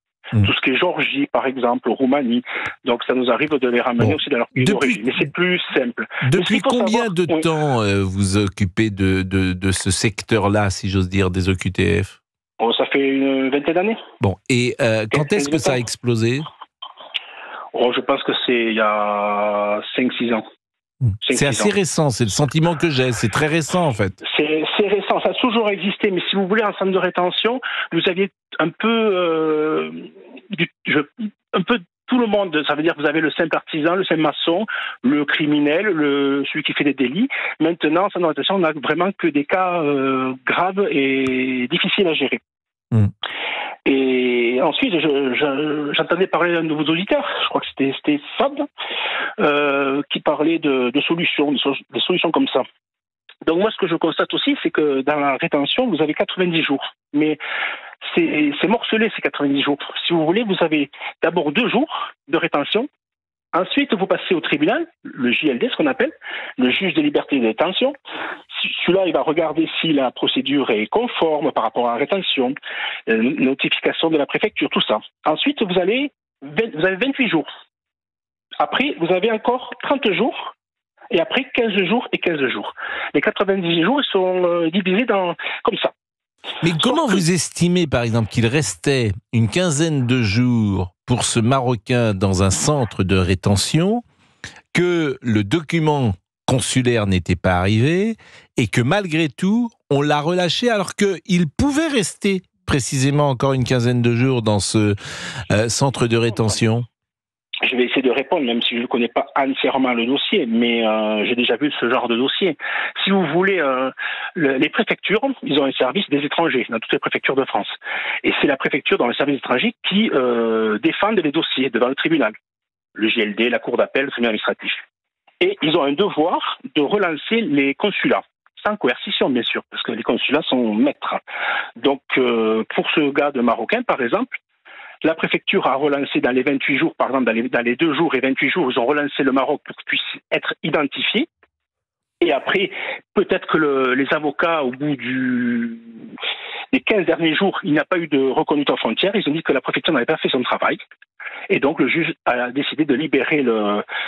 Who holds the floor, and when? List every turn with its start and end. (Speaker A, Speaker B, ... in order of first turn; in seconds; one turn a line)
Speaker A: 0.4-7.5
Speaker B: 4.0-5.2
Speaker B: 6.2-12.2
Speaker A: 12.6-14.0
Speaker B: 14.2-16.5
Speaker A: 15.1-15.8
Speaker A: 17.7-20.4
Speaker B: 21.0-24.2
Speaker A: 21.2-21.7
Speaker A: 24.2-42.4
Speaker A: 43.9-48.7
Speaker A: 49.4-52.6
Speaker A: 53.5-57.4
Speaker A: 58.1-62.9
Speaker A: 63.5-68.0
Speaker A: 68.5-72.5
Speaker A: 73.1-77.5
Speaker A: 78.6-80.5
Speaker A: 81.1-85.9
Speaker B: 86.6-94.0
Speaker A: 86.7-87.2
Speaker B: 94.7-105.0
Speaker B: 105.5-106.9
Speaker A: 107.7-122.3
Speaker A: 123.0-124.8
Speaker A: 125.4-131.2
Speaker A: 131.8-134.3
Speaker A: 135.0-141.3
Speaker A: 142.2-145.8
Speaker A: 146.7-150.8
Speaker A: 151.5-153.8